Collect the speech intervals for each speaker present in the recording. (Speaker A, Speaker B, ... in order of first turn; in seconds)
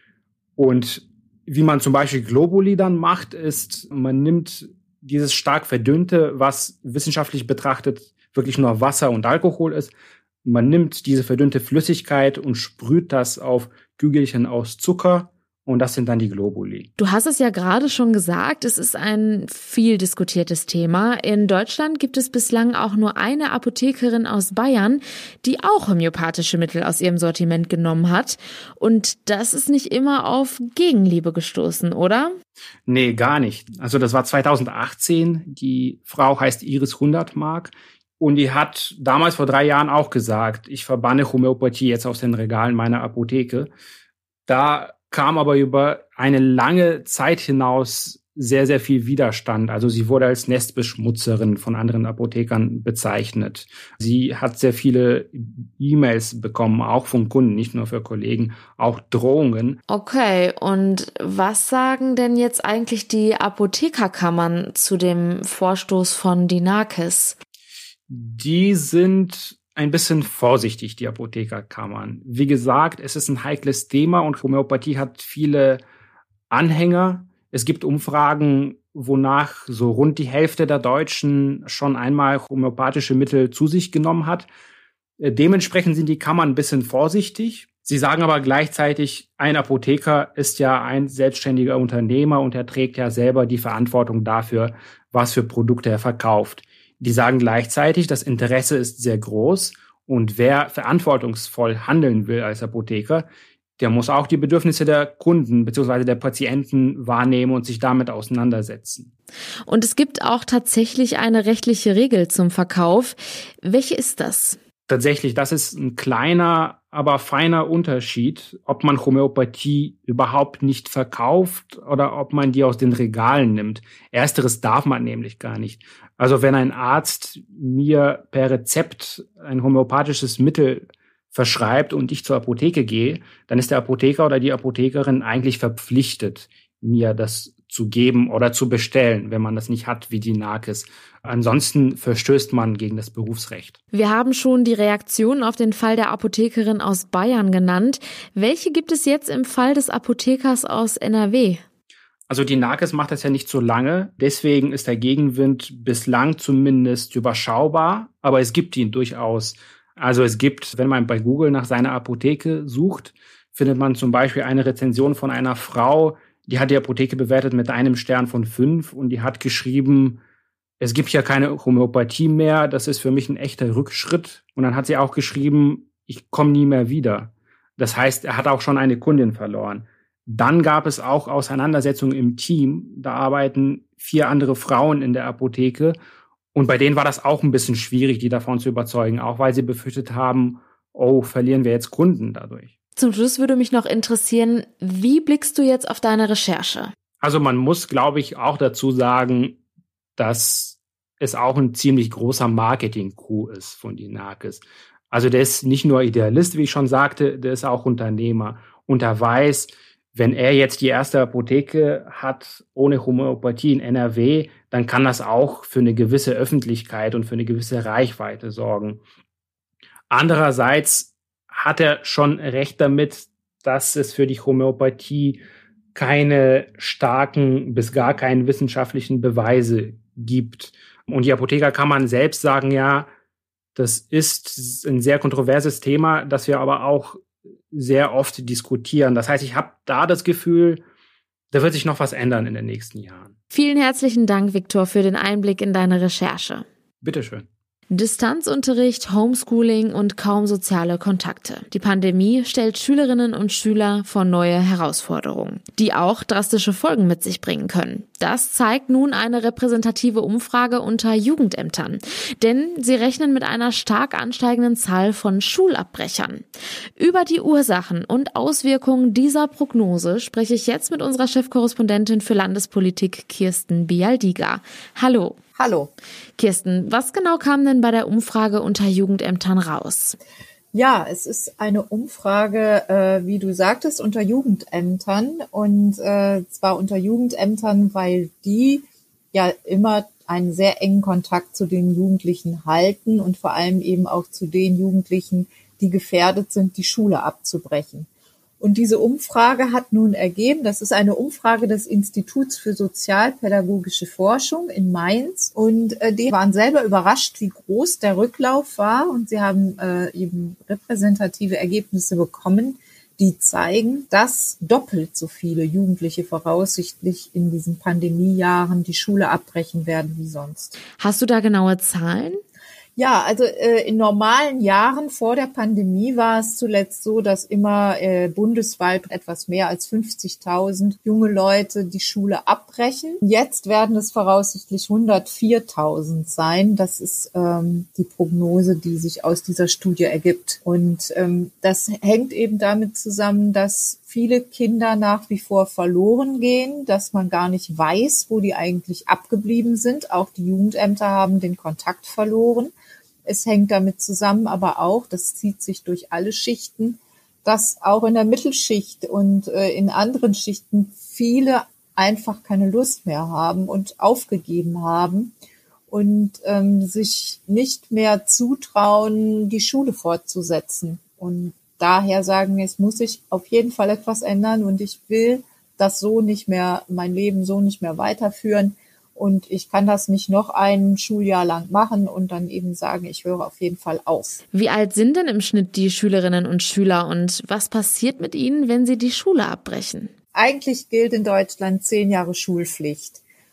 Speaker A: 0.6-9.9, 10.4-16.9, 32.9-43.7, 44.5-59.8, 68.1-75.8, 76.5-84.5, 85.2-103.3, 103.8-109.1, 114.9-143.8, 152.3-170.2, 170.8-186.0, 186.5-192.7, 197.2-199.6, 200.2-219.0, 220.1-225.4, 225.9-233.1, 233.8-240.8, 241.5-243.3, 247.0-247.5
Speaker B: 17.0-32.4, 59.9-67.4, 109.7-114.6, 143.9-151.6, 193.0-196.9, 243.5-246.7, 247.9-275.4, 276.4-280.2, 321.0-322.4, 384.5-390.1
Speaker C: 275.6-275.9, 280.7-298.1, 298.6-320.8, 323.0-352.7, 353.3-365.3, 365.9-384.4, 390.3-393.2